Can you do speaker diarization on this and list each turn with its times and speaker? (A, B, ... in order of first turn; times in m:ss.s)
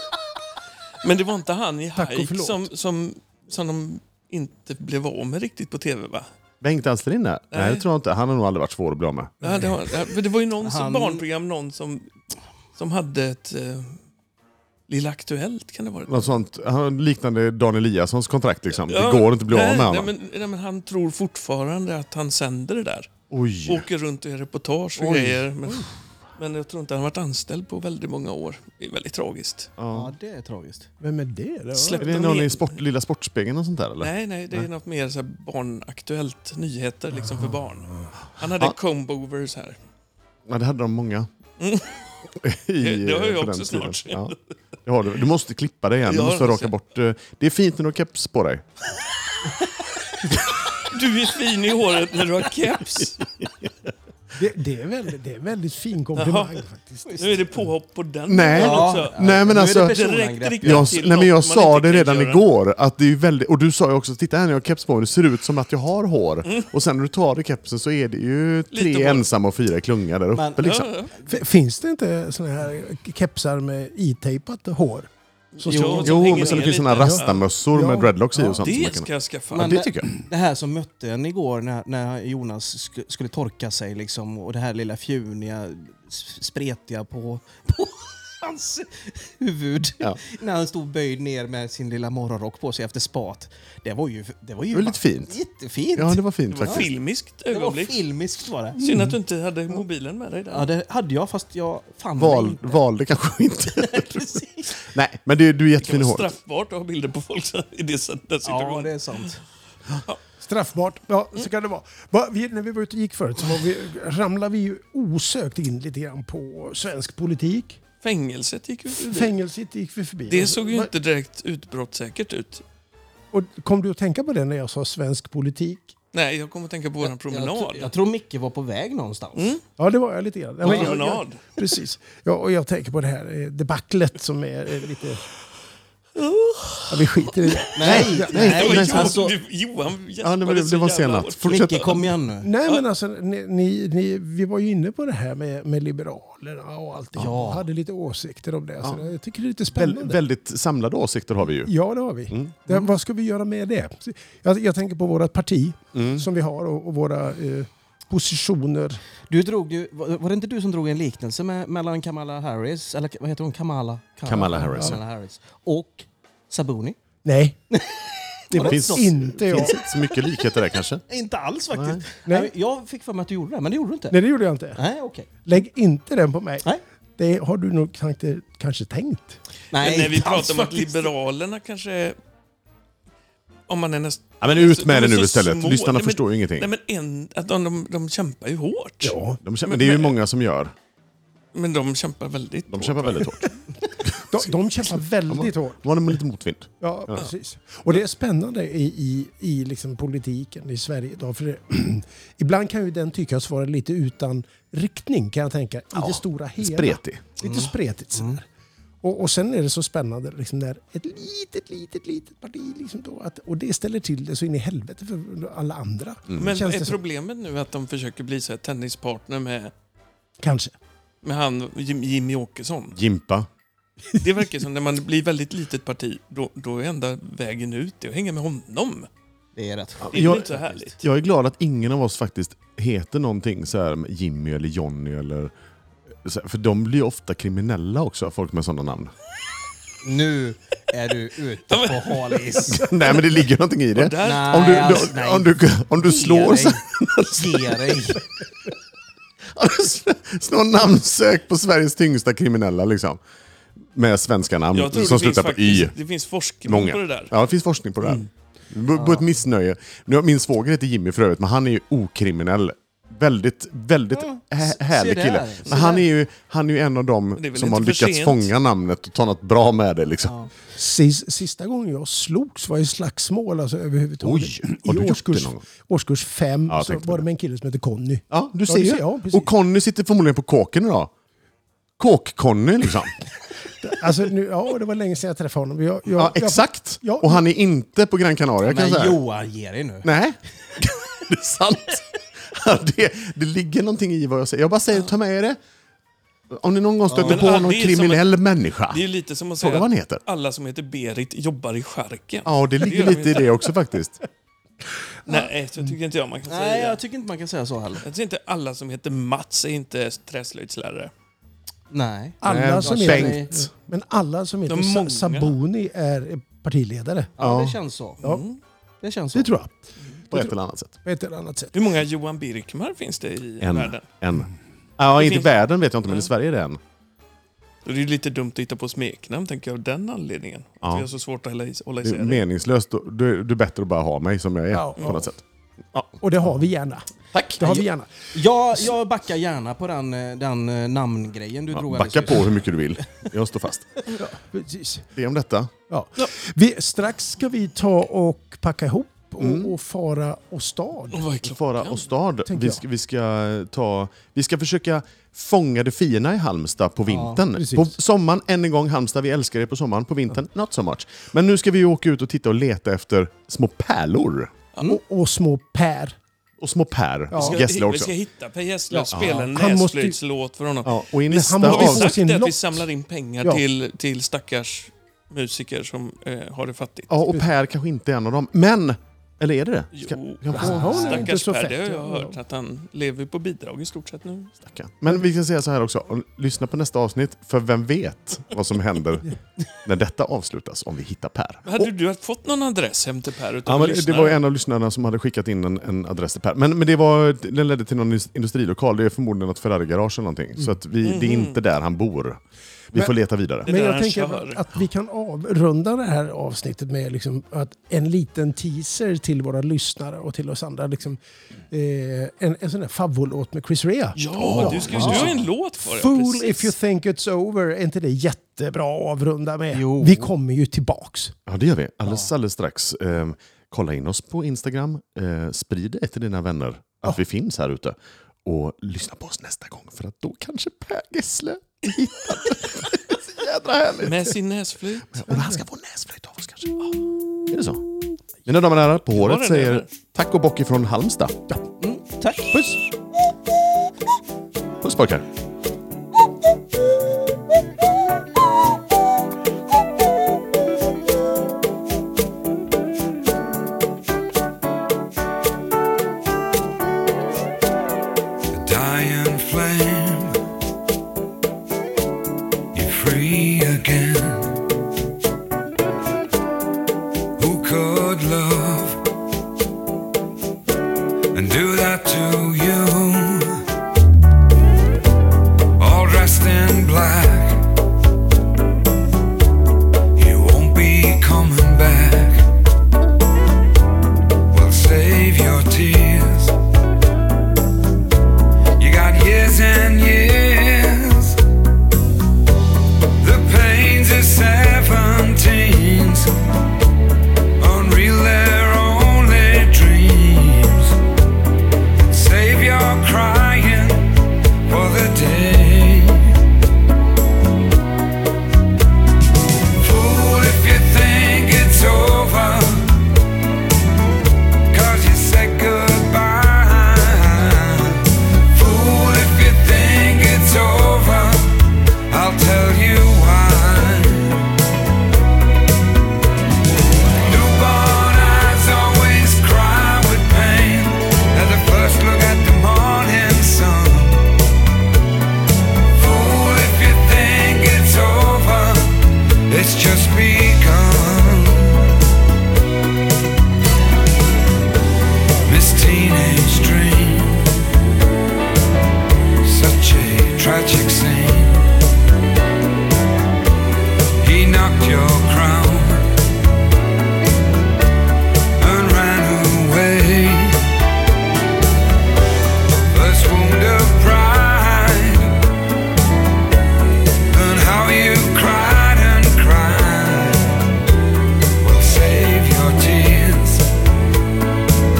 0:01.0-0:06.3 A
0:02.0-0:02.7 B
0:06.6-0:09.3 C
0:07.5-0:07.8 A
0:09.4-0:12.1 A
0:10.6-0:11.2 D
0:12.8-0:14.0 A
0:14.9-0:16.3 A
0:16.1-0:20.1 C
0:18.9-0:23.1 A
0:23.3-0:23.9 C
0:23.7-0:29.7 A
0:25.0-0:25.4 C
0:29.8-0:30.1 C
0:29.9-0:30.9 D
0:31.0-0:32.1 B
0:31.7-0:32.8 A
0:32.0-0:34.7 C
0:34.0-0:39.8 A
0:37.2-0:38.1 B
0:40.5-0:41.3 C
0:41.6-0:42.0 A
0:42.4-0:48.6 C
0:42.8-0:44.4 A
0:46.1-0:46.7 A
0:50.7-0:53.3 A
0:54.4-0:57.6 B
0:56.1-0:56.6 A
0:57.0-0:57.4 D
0:57.2-1:02.4 A
0:58.3-1:00.0 C
0:58.5-1:00.9 D
1:00.6-1:10.9 C
1:06.4-1:06.7 A
1:08.7-1:09.2 A
1:10.3-1:10.6 D
1:10.6-1:11.1 A
1:11.3-1:15.1 B
1:15.6-1:17.4 A
1:15.6-1:18.6 B
1:15.7-1:16.6 D
1:16.0-1:20.1 C
1:18.5-1:19.8 A
1:19.5-1:36.9 D
1:34.7-1:35.4 C
1:35.9-1:36.9 C
1:36.5-1:38.0 A
1:37.5-1:38.8 D
1:38.8-1:40.7 A
1:38.8-1:39.2 B
1:40.5-1:42.8 D
1:42.2-1:46.3 C
1:43.8-1:44.7 D
1:45.8-1:49.3 A
1:48.4-1:49.4 D
1:50.4-1:57.8 B
1:58.0-1:59.3 A
1:58.9-2:00.9 B
2:00.3-2:02.6 A
2:03.3-2:05.9 B
2:06.1-2:07.9 A
2:07.0-2:09.6 D
2:09.3-2:09.6 A
2:09.8-2:15.2 B
2:10.6-2:11.4 A
2:10.6-2:10.9 D
2:16.2-2:21.7 A
2:16.9-2:18.6 B
2:17.7-2:19.3 D
2:17.8-2:19.2 C
2:20.2-2:22.1 C
2:21.4-2:22.5 D
2:22.4-2:30.2 B
2:27.2-2:27.7 D
2:28.8-2:29.1 C
2:29.7-2:31.7 C
2:31.6-2:39.0 B
2:32.3-2:32.6 C
2:35.9-2:36.2 C
2:39.3-2:47.0 D
2:44.2-2:45.0 C
2:44.6-2:45.0 B
2:47.2-2:47.6 B
2:47.7-2:49.8 D
2:48.5-2:49.8 B
2:48.6-2:51.0 C
2:51.1-2:54.2 D
2:51.7-2:52.0 C
2:52.3-2:52.5 B
2:54.1-2:54.8 B
2:54.7-2:55.3 D
2:55.4-2:56.6 B
2:57.2-2:59.4 B
2:59.7-3:01.1 D
2:59.8-3:02.2 A
3:03.7-3:10.2 A
3:04.4-3:06.7 C
3:09.0-3:09.4 B
3:09.4-3:10.7 C
3:11.5-3:13.4 A
3:12.7-3:13.5 C
3:14.0-3:14.5 C
3:14.2-3:15.9 B
3:15.3-3:17.3 C
3:16.8-3:28.5 B
3:25.9-3:27.3 C
3:27.4-3:28.4 D
3:29.0-3:37.0 B
3:36.4-3:39.7 A
3:40.4-3:40.7 B
3:41.2-3:43.0 A
3:42.9-3:43.5 C
3:44.2-3:49.1 A
3:49.6-3:50.4 D
3:50.0-3:55.5 C
3:50.1-3:51.0 A
3:56.2-3:59.1 C
4:00.0-4:02.8 D
4:01.7-4:02.8 A
4:02.7-4:08.0 C
4:03.9-4:05.1 A
4:04.2-4:08.2 D
4:09.5-4:13.2 C
4:13.9-4:15.9 C
4:14.7-4:17.3 A
4:16.6-4:30.3 C
4:18.9-4:19.2 D
4:24.1-4:26.0 D
4:25.7-4:26.0 A
4:27.4-4:28.5 A
4:30.2-4:30.5 D
4:30.7-4:39.5 B
4:34.2-4:35.6 C
4:36.7-4:37.2 C
4:38.3-4:41.1 C
4:42.0-4:43.2 C
4:43.8-4:47.4 B
4:46.1-4:49.2 C
4:48.6-4:50.1 D
4:50.0-4:55.6 C
4:56.5-4:59.1 C
4:57.1-4:57.4 D
4:57.2-4:58.4 A
4:58.9-5:03.6 A
4:59.6-5:00.2 C
5:02.4-5:04.2 C
5:05.2-5:05.9 B
5:05.2-5:07.0 A
5:06.5-5:08.0 D
5:08.0-5:11.1 A
5:11.9-5:13.5 D
5:12.4-5:17.3 B
5:12.4-5:13.7 C
5:14.7-5:15.5 A
5:17.4-5:18.2 D
5:17.4-5:17.8 C
5:18.2-5:18.6 A
5:19.0-5:19.5 D
5:19.3-5:19.8 B
5:20.3-5:20.9 C
5:20.3-5:21.7 B
5:21.7-5:24.0 A
5:23.6-5:26.8 C
5:25.1-5:25.5 A
5:27.8-5:32.4 A
5:32.0-5:35.4 C
5:34.7-5:35.3 B
5:35.9-5:36.7 C
5:36.2-5:37.1 B
5:37.3-5:37.8 C
5:37.6-5:38.1 B
5:37.6-5:43.3 D
5:41.7-5:44.0 C
5:44.1-5:45.0 B
5:45.2-5:45.7 C
5:45.9-5:51.2 B
5:49.4-5:49.7 C
5:51.1-5:52.1 A
5:51.4-6:04.5 C
5:52.5-5:52.8 B
5:57.1-5:57.4 D
5:57.5-5:58.0 B
6:04.8-6:06.2 B
6:06.6-6:08.1 C
6:07.3-6:07.6 B
6:07.3-6:17.1 A
6:08.9-6:10.2 B
6:09.1-6:09.4 C
6:10.8-6:12.2 C
6:11.3-6:12.8 B
6:17.1-6:21.4 C
6:19.9-6:24.5 A
6:20.5-6:22.4 B
6:24.6-6:29.3 C
6:29.8-6:31.9 C
6:31.6-6:34.4 A
6:33.6-6:42.4 C
6:41.0-6:41.6 A
6:42.9-6:43.7 C
6:43.6-6:44.7 A
6:43.6-7:01.3 B
6:54.1-6:56.7 A
6:54.4-6:55.4 C
6:54.5-6:55.3 D
6:59.7-7:00.3 D
7:01.4-7:14.3 C
7:14.0-7:15.3 A
7:15.1-7:16.7 C
7:15.3-7:15.6 B
7:17.5-7:17.8 C
7:18.4-7:21.4 C
7:19.1-7:19.9 A
7:21.8-7:22.5 D
7:22.5-7:22.8 C
7:24.8-7:25.2 C
7:38.5-7:40.4 E
7:42.7-7:44.5 E
7:47.4-7:49.0 E
7:51.3-7:53.6 E
7:55.8-7:57.6 E
8:00.1-8:02.4 E
8:04.5-8:06.5 E
8:08.8-8:11.4 E
8:13.2-8:16.3 E
8:17.6-8:20.9 E
8:22.1-8:24.1 E
8:24.6-8:26.3 E
8:29.8-8:33.0 E
8:34.7-8:41.6 E
8:42.1-8:44.4 E
8:47.2-8:54.3 E
8:55.9-9:01.9 E
9:05.4-9:07.5 E
9:09.4-9:11.7 E
9:14.2-9:16.1 E
9:18.6-9:20.6 E
9:22.9-9:25.4 E
9:27.3-9:30.6 E
9:31.6-9:33.7 E